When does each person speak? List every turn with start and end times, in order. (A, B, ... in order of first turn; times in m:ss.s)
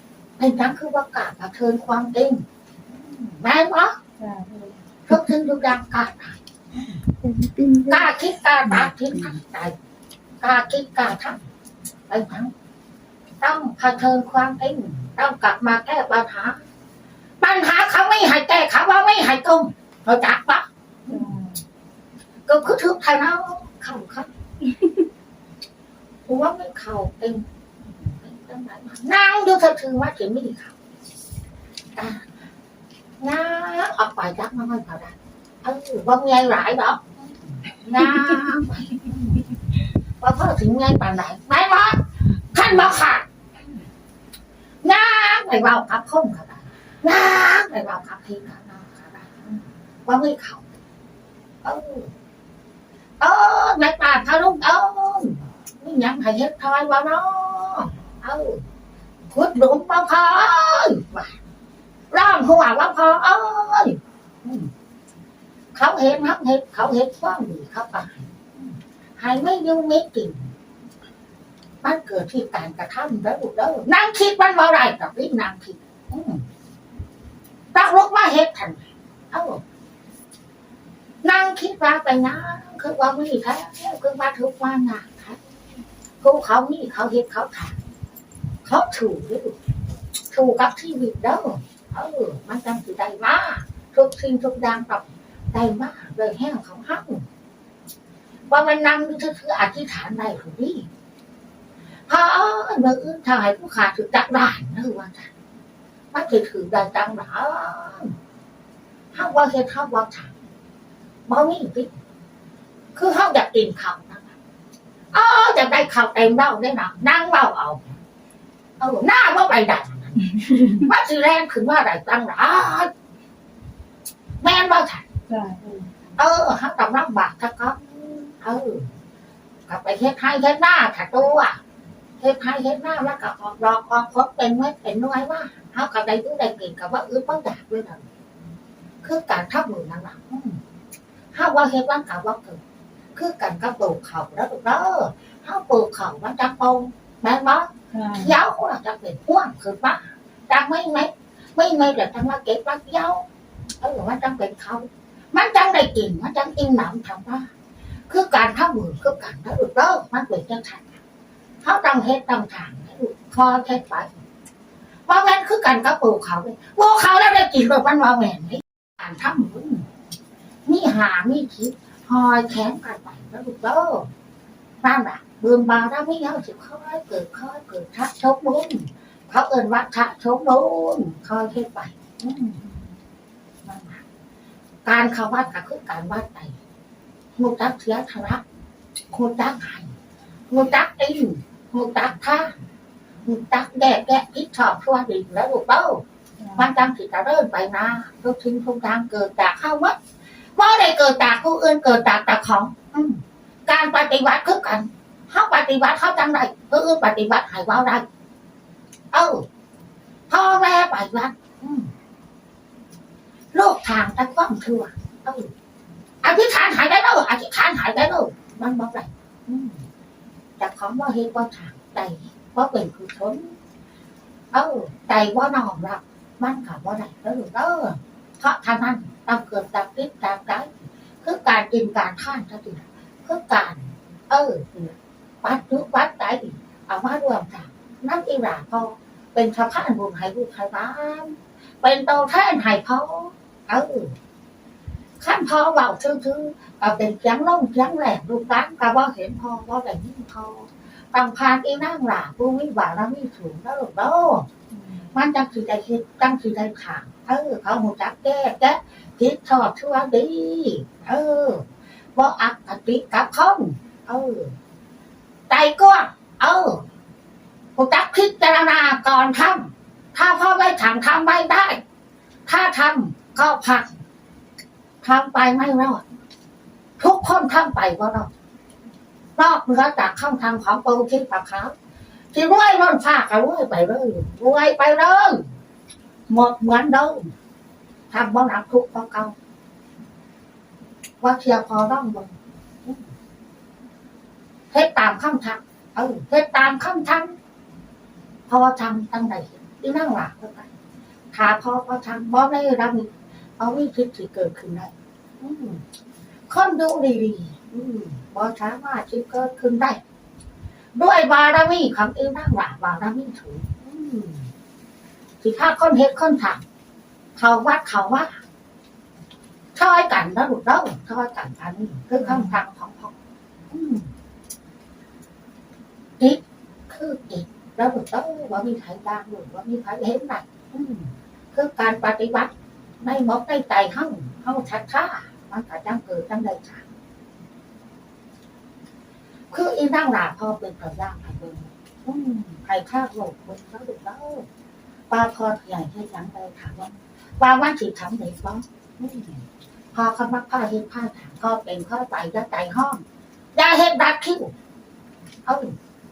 0:00.4-0:04.0 A
0:04.2-0:04.8 B
0:05.1-0:06.8 A
0:07.2-0:08.0 B
0:07.9-0:09.8 A
0:10.4-0:11.4 A
0:12.1-0:12.5 A
0:13.4-0:16.6 A
0:17.4-0:21.3 A
0:21.1-0:21.6 B
0:22.5-0:24.3 A
0:26.3-0:30.7 A
0:32.0-0:32.2 A
0:33.2-0:39.4 A
0:40.2-0:43.3 A
0:44.8-0:50.6 A
0:51.6-0:52.1 A
0:53.2-0:58.6 A
0:59.3-1:01.4 A
1:02.1-1:04.7 A
1:05.8-1:10.5 A
1:11.8-1:16.4 A
1:17.7-1:19.6 A
1:21.2-1:25.4 A
1:26.2-1:27.8 A
1:28.6-1:29.6 A
1:30.3-1:37.2 A
1:38.5-1:40.9 A
1:42.1-1:45.3 A
1:46.1-1:48.2 A
1:49.1-1:50.3 A
1:51.3-1:52.0 A
1:53.0-1:54.3 A
1:55.1-1:58.0 A
1:58.8-2:02.9 A
2:04.4-2:05.0 A
2:05.3-2:05.9 B
2:06.2-2:08.9 A
2:09.7-2:11.6 A
2:12.2-2:18.0 A
2:19.0-2:20.6 A
2:21.3-2:22.6 A
2:23.2-2:33.2 A
2:27.9-2:28.3 B
2:33.8-2:37.5 A
2:38.1-2:40.9 A
2:41.6-2:44.1 A
2:45.1-2:49.8 A
2:50.7-2:54.1 A
2:54.8-3:02.6 A
3:03.6-3:04.0 A
3:04.8-3:06.6 A
3:07.4-3:08.4 A
3:09.1-3:09.9 A
3:10.5-3:12.5 A
3:13.3-3:16.0 A
3:16.4-3:16.7 B
3:16.6-3:20.0 A
3:20.6-3:28.0 A
3:29.1-3:29.4 A
3:30.3-3:31.9 A
3:33.5-3:35.5 A
3:36.2-3:39.8 A
3:40.6-3:43.6 A
3:44.5-3:54.9 A
3:55.4-4:04.2 A
4:05.2-4:14.5 A
4:14.7-4:15.0 B
4:15.1-4:21.6 A
4:22.2-4:24.5 A
4:25.5-4:26.8 A
4:27.8-4:31.8 A
4:32.5-4:33.9 A
4:35.0-4:36.0 A
4:37.0-4:38.3 A
4:39.4-4:41.7 A
4:42.3-4:45.4 A
4:46.3-4:47.3 A
4:48.1-4:49.4 A
4:51.2-4:52.3 A
4:54.7-4:57.4 A
4:58.5-5:00.7 A
5:01.3-5:05.8 A
5:06.5-5:10.0 A
5:11.0-5:14.5 A
5:15.4-5:16.6 A
5:17.4-5:18.4 A
5:19.8-5:23.2 A
5:23.7-5:24.1 A
5:26.2-5:36.8 A
5:39.5-5:44.4 A
5:45.1-5:49.4 A
5:49.9-5:53.0 A
5:53.6-5:54.5 A
5:55.5-5:55.8 A